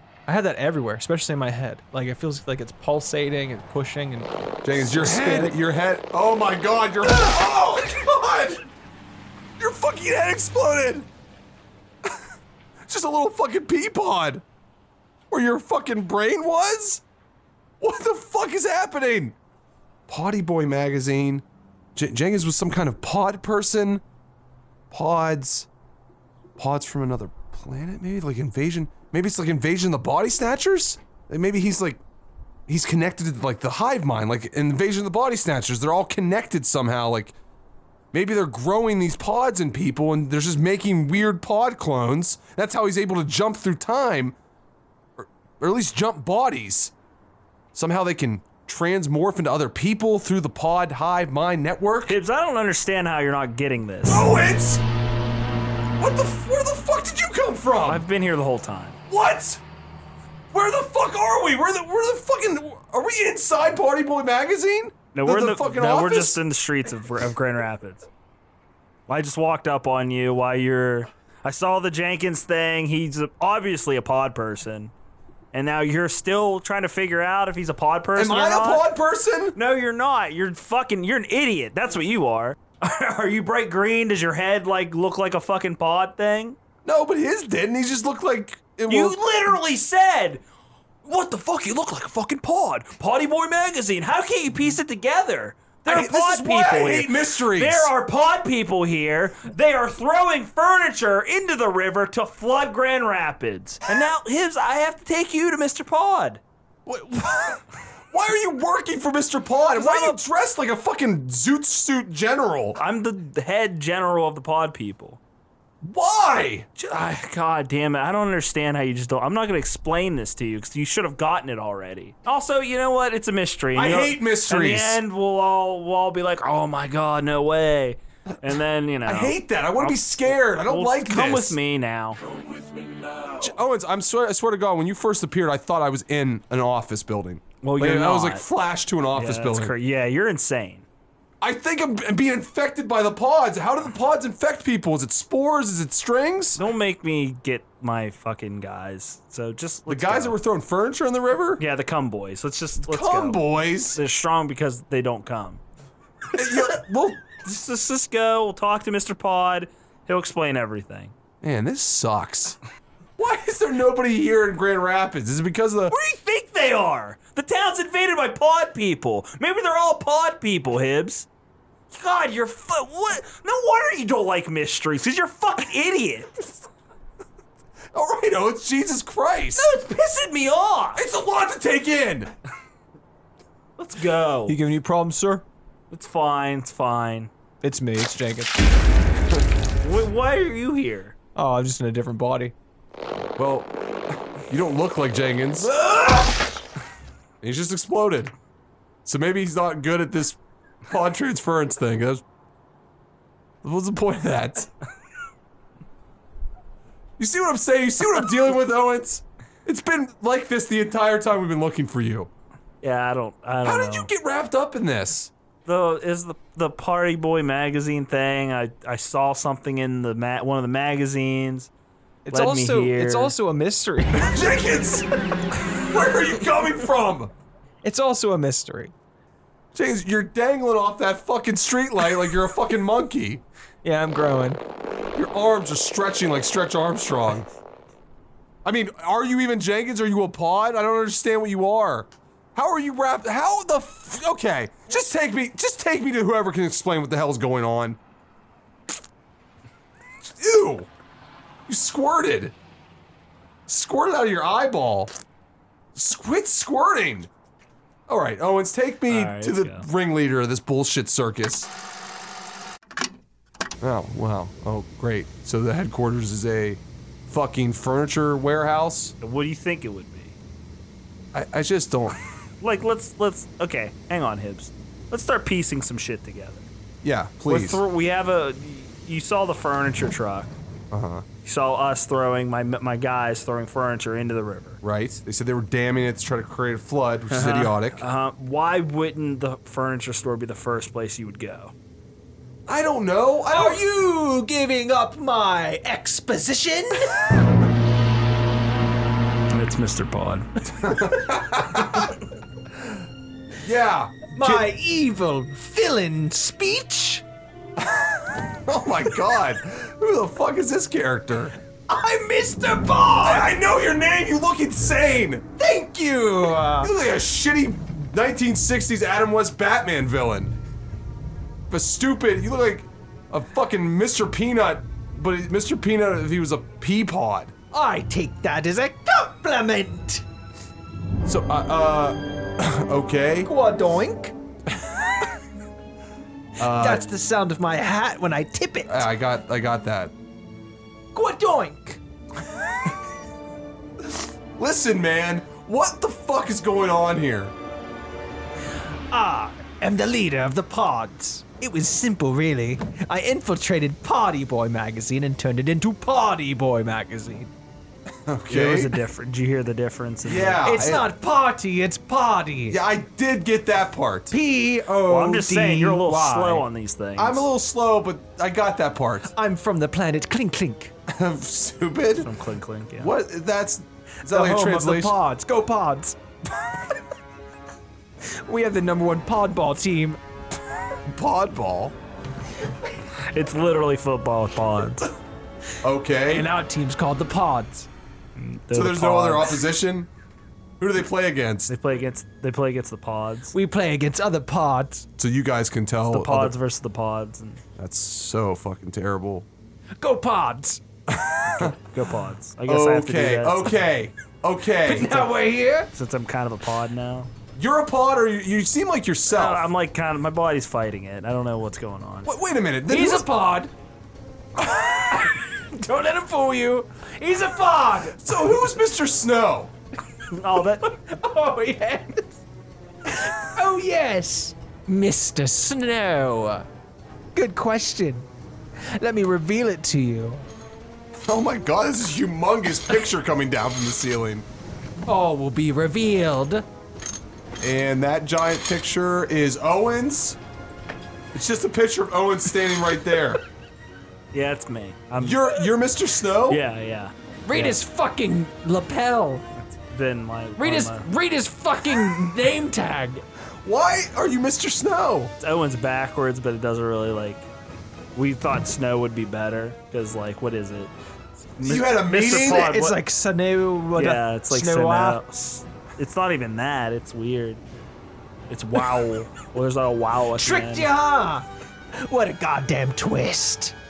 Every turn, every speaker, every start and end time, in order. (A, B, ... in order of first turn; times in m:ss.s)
0:00.3-0:05.6 A
0:04.6-0:08.7 B
0:09.6-0:11.1 B
0:12.9-0:14.4 B
0:15.3-0:17.0 B
0:17.8-0:19.4 B
0:20.1-0:24.0 B
0:24.9-0:25.7 B
0:26.6-0:32.0 B
0:32.7-0:37.3 B
0:38.1-0:44.4 B
0:45.2-0:46.9 B
0:47.7-0:52.2 B
0:52.1-0:54.3 C
0:54.1-0:54.8 B
0:56.0-0:58.0 B
0:57.8-0:59.0 C
0:59.1-0:59.6 B
1:00.5-1:06.4 B
1:05.1-1:08.1 C
1:09.1-1:14.9 C
1:15.5-1:18.8 C
1:18.2-1:19.6 B
1:19.6-1:26.6 C
1:26.8-1:29.2 B
1:28.9-1:30.4 C
1:31.0-1:46.4 C
1:35.9-1:37.9 B
1:46.9-1:52.8 B
1:49.8-1:50.2 C
1:52.8-1:55.2 C
1:55.8-1:56.7 B
1:56.8-2:13.4 C
2:03.8-2:05.0 B
2:09.0-2:11.6 B
2:13.4-2:19.8 B
2:17.6-2:18.5 C
2:19.1-2:20.9 C
2:21.4-2:26.6 B
2:26.6-2:30.4 C
2:29.9-2:31.6 B
2:31.6-2:35.6 C
2:32.8-2:34.0 B
2:36.3-2:37.2 B
2:37.4-2:41.1 C
2:41.4-2:42.6 B
2:43.2-2:46.0 B
2:45.9-2:51.3 C
2:51.9-2:56.3 C
2:57.9-2:59.7 B
2:59.6-3:01.0 C
3:01.0-3:02.3 B
3:03.8-3:04.6 C
3:04.5-3:05.4 A
3:05.9-3:07.3 C
3:07.6-3:08.6 A
3:09.8-3:11.2 C
3:11.4-3:12.5 A
3:13.4-3:15.7 B
3:15.6-3:16.4 C
3:17.4-3:18.3 B
3:19.0-3:22.2 B
3:23.6-3:24.7 B
3:27.2-3:32.3 B
3:32.8-3:34.1 C
3:33.6-3:35.3 B
3:35.6-3:41.7 C
3:42.2-3:44.4 A
3:42.3-3:43.4 C
3:44.1-3:45.1 B
3:45.7-3:47.3 B
3:47.8-3:48.9 A
3:49.7-3:53.4 B
3:53.8-3:54.6 A
3:55.1-3:57.5 B
3:58.6-4:08.0 B
4:10.3-4:10.9 B
4:11.7-4:12.5 B
4:13.7-4:15.1 B
4:16.0-4:17.3 B
4:18.1-4:21.7 B
4:19.1-4:19.9 C
4:23.8-4:29.2 B
4:29.2-4:30.4 C
4:31.3-4:32.2 B
4:32.6-4:36.7 C
4:37.0-4:37.8 B
4:37.5-4:40.5 C
4:40.9-4:41.3 B
4:41.4-4:44.8 C
4:44.8-4:48.0 B
4:47.3-4:51.7 C
4:52.7-4:53.8 B
4:53.5-4:57.2 A
4:59.5-5:00.6 C
5:00.7-5:02.2 B
5:03.6-5:04.7 B
5:04.4-5:07.2 A
5:07.8-5:11.6 B
5:11.9-5:13.6 A
5:13.2-5:15.4 B
5:15.6-5:16.9 A
5:16.8-5:20.6 B
5:21.7-5:27.5 B
5:27.7-5:30.2 A
5:31.2-5:33.5 B
5:33.4-5:34.3 A
5:36.6-5:37.1 B
5:36.6-5:39.1 A
5:38.9-5:40.1 B
5:41.1-5:42.0 A
5:44.0-5:47.6 B
5:49.1-5:57.5 A
5:58.3-5:58.9 B
5:58.5-6:00.9 C
6:00.2-6:01.1 B
6:00.6-6:02.8 A
6:02.7-6:04.3 B
6:04.3-6:06.6 A
6:05.1-6:07.5 C
6:07.2-6:09.3 B
6:09.3-6:10.9 A
6:11.1-6:12.3 B
6:12.2-6:13.1 C
6:13.0-6:15.2 B
6:14.3-6:16.2 A
6:18.5-6:20.2 A
6:21.1-6:22.0 B
6:23.3-6:25.1 C
6:25.8-6:26.5 B
6:26.3-6:27.9 A
6:28.4-6:29.6 C
6:28.7-6:30.1 B
6:30.8-6:31.7 B
6:31.7-6:33.5 C
6:33.5-6:35.1 A
6:35.2-6:36.5 B
6:36.1-6:37.6 C
6:37.8-6:39.5 B
6:40.0-6:40.8 A
6:41.1-6:41.8 B
6:41.6-6:43.8 C
6:42.7-6:45.3 B
6:44.8-6:45.9 A
6:45.9-6:47.3 C
6:47.6-6:49.7 B
6:49.3-6:52.3 C
6:52.2-6:53.3 B
6:52.9-6:53.7 A
6:54.7-6:58.3 A
6:58.2-6:59.7 B
7:00.3-7:00.8 C
7:00.8-7:02.4 A
7:03.1-7:06.7 A
7:07.3-7:08.3 A
7:09.0-7:10.5 A
7:11.2-7:14.4 B
7:15.1-7:16.6 A
7:17.6-7:20.4 B
7:21.3-7:23.4 B
7:24.3-7:25.7 C
7:25.2-7:26.6 B
7:26.5-7:27.8 C
7:27.5-7:29.4 A
7:29.8-7:31.1 C
7:30.6-7:33.2 A
7:33.6-7:35.3 B
7:35.4-7:37.5 C
7:38.2-7:43.0 C
7:41.6-7:42.7 B
7:42.1-7:45.2 A
7:44.0-7:47.6 C
7:48.5-7:50.9 C
7:50.4-7:51.5 A
7:52.0-7:53.7 A